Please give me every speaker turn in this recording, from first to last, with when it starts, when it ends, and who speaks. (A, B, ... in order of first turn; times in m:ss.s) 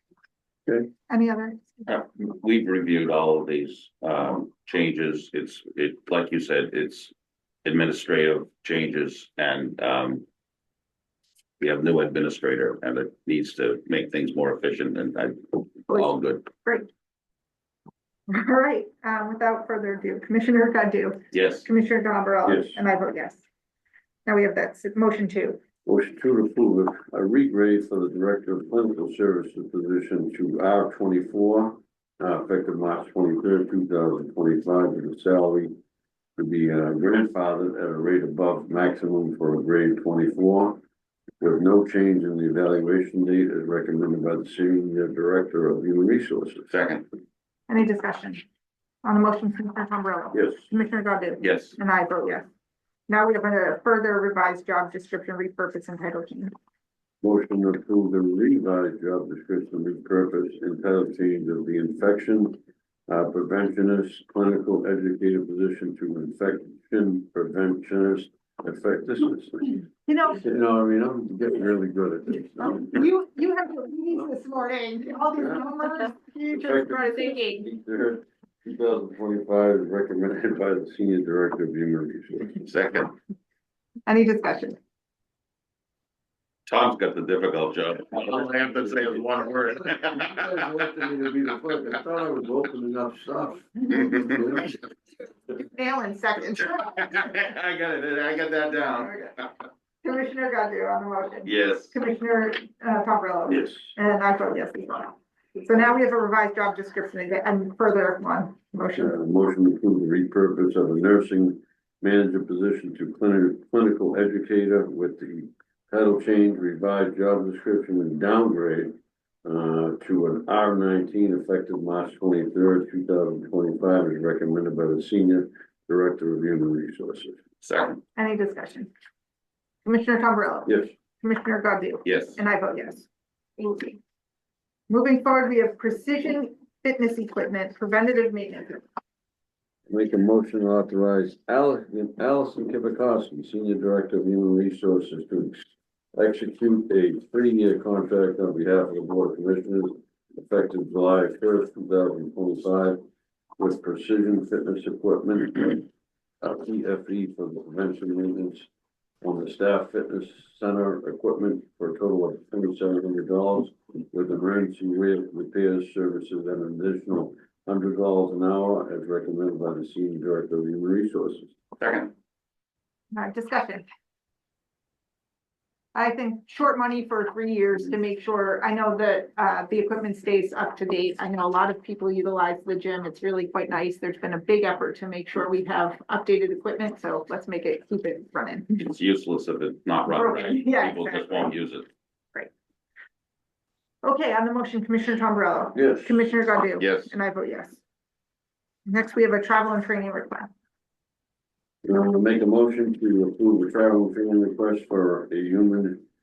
0:01.1-0:01.8 A
0:01.9-0:07.1 B
0:07.6-0:10.2 B
0:11.6-0:16.5 B
0:15.9-0:16.9 A
0:18.3-0:23.4 A
0:21.3-0:21.7 B
0:22.4-0:22.8 C
0:24.2-0:25.6 A
0:25.8-0:35.7 C
0:36.4-0:40.8 C
0:41.4-0:46.7 C
0:46.7-0:47.0 B
0:47.7-0:48.4 A
0:49.0-0:52.4 A
0:50.3-0:50.6 C
0:51.4-0:51.8 B
0:53.1-0:56.5 A
0:57.2-1:13.0 C
1:10.1-1:10.4 A
1:12.6-1:17.6 A
1:16.5-1:22.6 C
1:22.6-1:23.1 B
1:24.1-1:24.8 A
1:26.7-1:30.6 B
1:28.1-1:34.9 C
1:35.6-1:37.1 A
1:36.7-1:39.4 B
1:38.9-1:39.3 A
1:40.0-1:49.1 A
1:41.4-1:41.9 B
1:49.0-2:07.4 C
2:07.6-2:08.0 B
2:08.1-2:08.9 A
2:09.8-2:13.1 A
2:10.6-2:10.9 C
2:12.0-2:12.4 B
2:13.6-2:14.0 A
2:14.9-2:18.8 A
2:19.9-2:25.6 C
2:26.1-2:33.0 C
2:33.6-2:35.8 C
2:36.4-2:38.7 C
2:39.2-2:51.5 C
2:51.8-2:52.1 B
2:53.1-2:53.8 A
2:55.9-3:08.8 A
3:08.8-3:11.9 B
3:10.1-3:11.5 A
3:14.0-3:17.8 A
3:15.7-3:16.2 C
3:16.8-3:17.1 B
3:18.8-3:20.5 A
3:21.8-3:26.0 C